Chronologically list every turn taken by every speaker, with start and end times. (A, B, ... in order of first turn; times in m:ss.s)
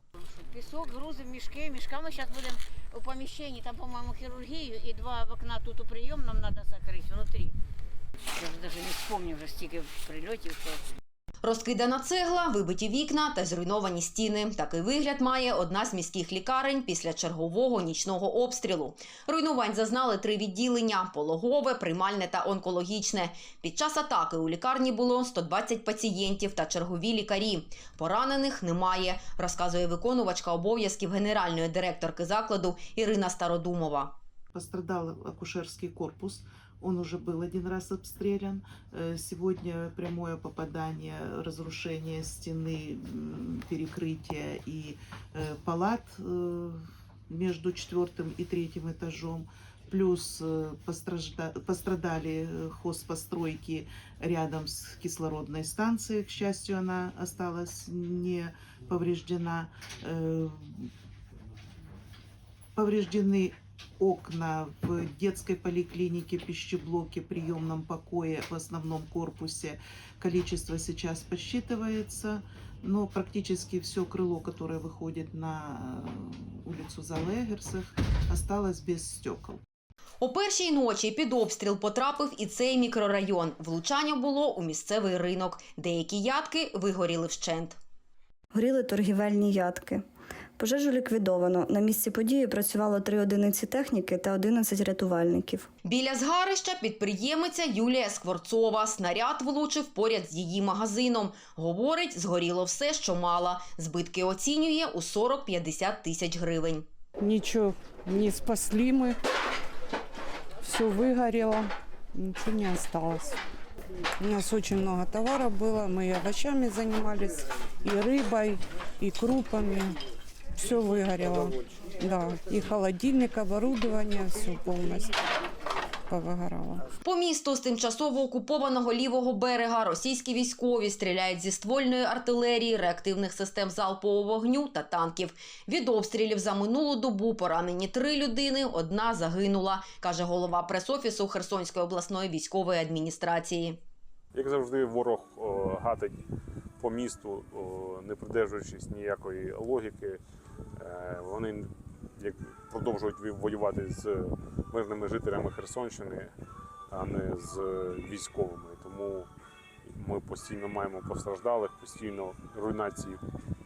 0:00.2-0:07.6 A
0:08.3-0:10.8 A
0:11.4-0:34.2 B
0:34.5-1:00.9 C
1:02.7-1:19.6 C
1:20.2-1:27.8 B
1:28.5-1:30.0 D
1:30.6-1:35.7 D
1:35.8-1:46.8 B
1:47.2-1:49.2 E
1:50.6-1:53.4 E
1:54.2-2:00.0 E
2:00.6-2:05.1 E
2:06.1-2:06.8 E
2:07.0-2:23.8 B
2:24.3-2:26.2 F
2:26.8-2:30.2 F
2:30.8-2:36.3 F
2:36.9-2:39.3 F
2:39.8-2:43.2 F